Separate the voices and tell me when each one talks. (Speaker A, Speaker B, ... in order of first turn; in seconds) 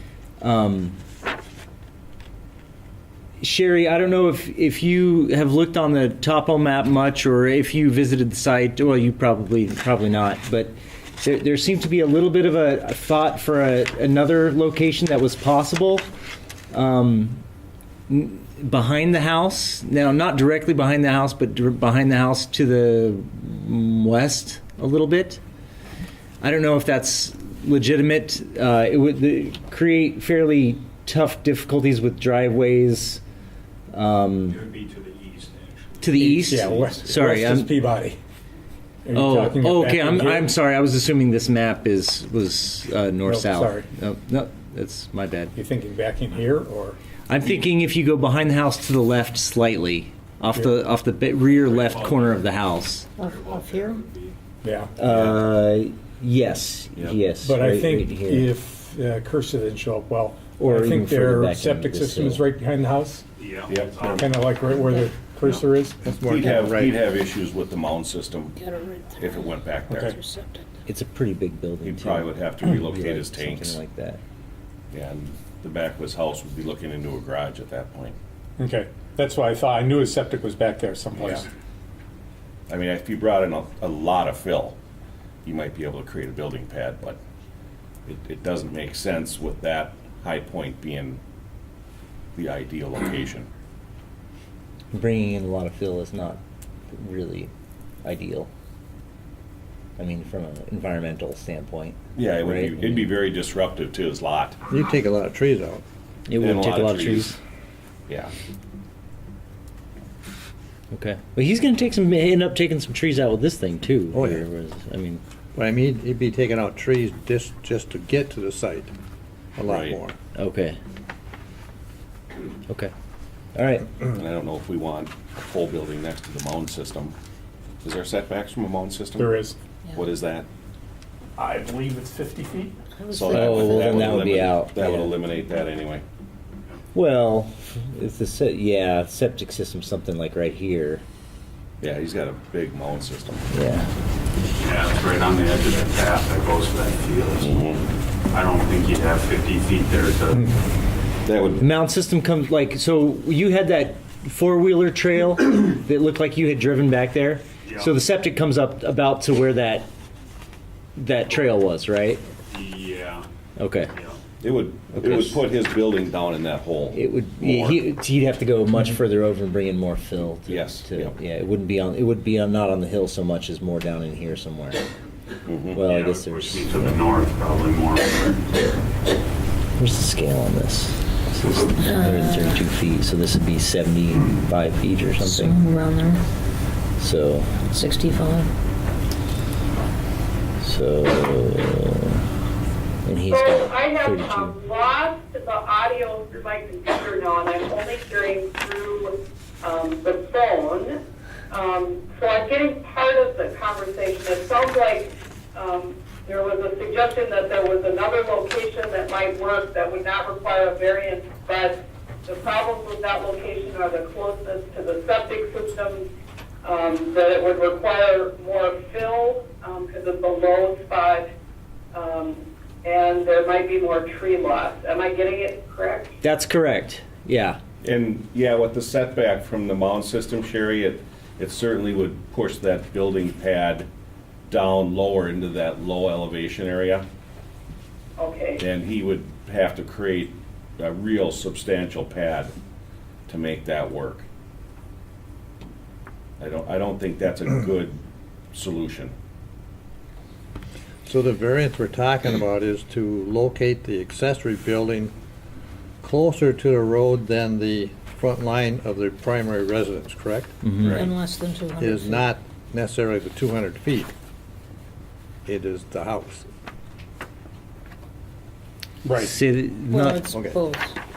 Speaker A: 0.4-1.0, 3.4-16.1, 16.7-17.4, 18.1-25.4, 26.4-33.2, 33.9-34.6, 36.0-37.7, 39.1-45.5, 47.3-53.1, 55.0-58.5, 60.6-62.4, 70.9-74.2, 94.9-97.5, 98.0-98.5, 100.0-103.1, 106.3-107.4, 110.9-115.2, 120.4-120.8, 123.5-123.9, 133.3-135.1, 136.9-141.0, 143.5-143.9, 151.6-159.9, 161.0-162.2, 163.6-163.9, 164.9-165.3, 166.9-174.8, 175.7-177.0, 179.8-185.6, 187.0-187.7, 190.6-192.2, 193.1-194.5, 226.2-227.6, 260.6-261.1, 269.2-270.3
Speaker B: 34.5-36.1, 51.5-54.4, 63.4-64.3, 144.6-147.6, 148.3-150.5, 157.6-157.9, 162.5-163.3, 163.9-164.2, 175.8-178.5
Speaker C: 36.2-38.2, 39.0-40.5, 43.2-43.9, 45.5-47.0, 54.6-54.9, 57.4-63.2, 64.0-66.1, 69.9-70.2, 78.6-81.5, 129.2-129.6, 131.4-132.8, 269.0-269.4
Speaker D: 53.2-54.0, 64.7-65.1, 68.6-69.6, 70.2-70.6, 133.0-134.2, 181.8-182.6, 185.2-186.2, 187.7-188.5, 260.8-262.3, 269.9-271.0
Speaker E: 55.0-55.4, 63.7-64.3, 66.2-68.6, 69.2-70.2, 71.8-73.8, 74.9-78.2, 81.2-81.5, 82.7-84.8, 85.5-87.2, 88.1-91.2, 92.3-93.5, 102.2-104.6, 106.4-107.3, 108.1-108.3, 119.7-120.0, 124.1-127.2, 127.8-129.3, 129.9-130.5, 133.1-136.0, 141.8-143.5, 147.4-147.8, 151.2-151.7, 164.4-167.8, 170.4-171.2, 175.5-175.8, 227.8-233.9, 234.5-237.1, 238.6-242.5, 243.3-244.3, 246.4-248.0, 248.5-249.1, 260.8-261.1
Speaker F: 66.0-66.9, 104.7-105.8, 114.1-114.4, 115.5-118.9, 119.6-120.2, 251.1-255.1, 256.0-260.6, 261.8-264.1, 265.5-266.5, 270.3-270.6
Speaker G: 193.3-201.0, 201.5-216.1, 216.6-221.3, 221.9-226.1, 238.2-238.6